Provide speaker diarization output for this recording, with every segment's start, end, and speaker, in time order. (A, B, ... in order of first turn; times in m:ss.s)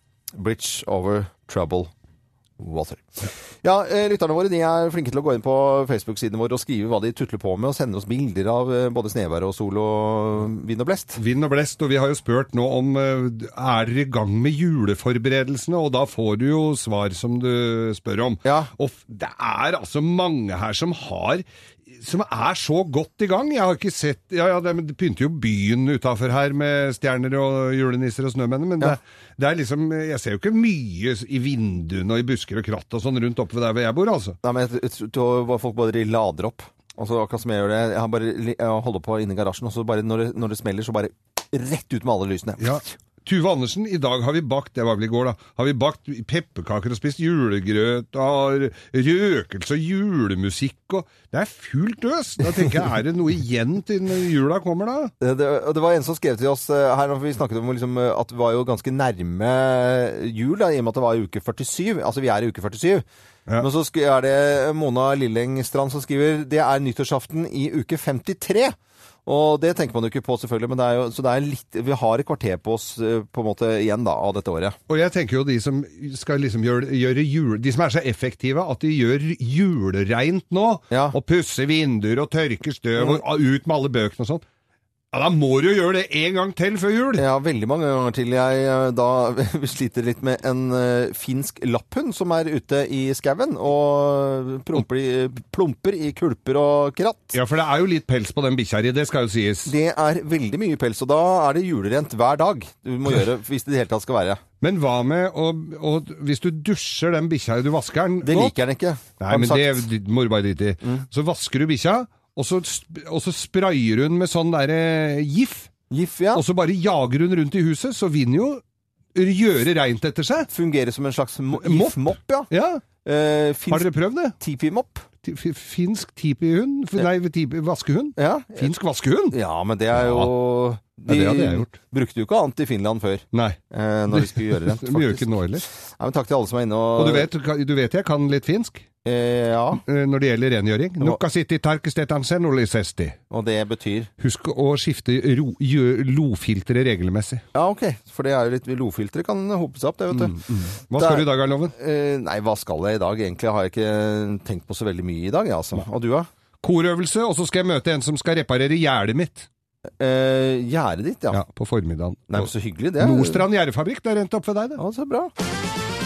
0:00.3-0:01.9 A
0:02.6-0:11.2 A
0:11.2-0:34.4 B
0:18.4-0:18.7 A
0:34.4-0:42.9 A
0:42.6-0:55.1 B
0:55.2-1:03.0 A
1:03.6-1:08.8 A
1:09.3-1:14.8 A
1:14.9-1:24.4 B
1:20.9-1:21.2 A
1:23.0-1:23.2 A
1:25.1-1:27.2 B
1:27.2-1:37.4 A
1:37.3-1:39.7 B
1:39.7-1:44.4 A
1:44.6-1:48.6 B
1:48.2-1:49.8 A
1:49.2-1:55.7 B
1:55.9-1:56.4 A
1:56.3-1:58.6 B
1:59.2-2:00.5 B
2:00.5-2:02.5 A
2:01.6-2:02.8 B
2:03.0-2:05.1 A
2:03.7-2:04.4 B
2:05.2-2:09.4 B
2:08.2-2:08.7 A
2:09.3-2:17.3 A
2:09.9-2:10.3 B
2:11.1-2:11.7 B
2:13.3-2:13.6 B
2:14.1-2:15.6 B
2:17.0-2:18.9 B
2:19.0-2:19.8 A
2:19.9-2:23.2 B
2:23.3-2:24.1 A
2:24.2-2:27.4 B
2:27.5-2:30.4 A
2:30.1-2:31.7 B
2:31.0-2:36.3 A
2:36.6-2:39.5 B
2:40.0-2:41.4 A
2:41.3-2:44.8 B
2:42.3-2:43.5 A
2:44.8-2:45.3 A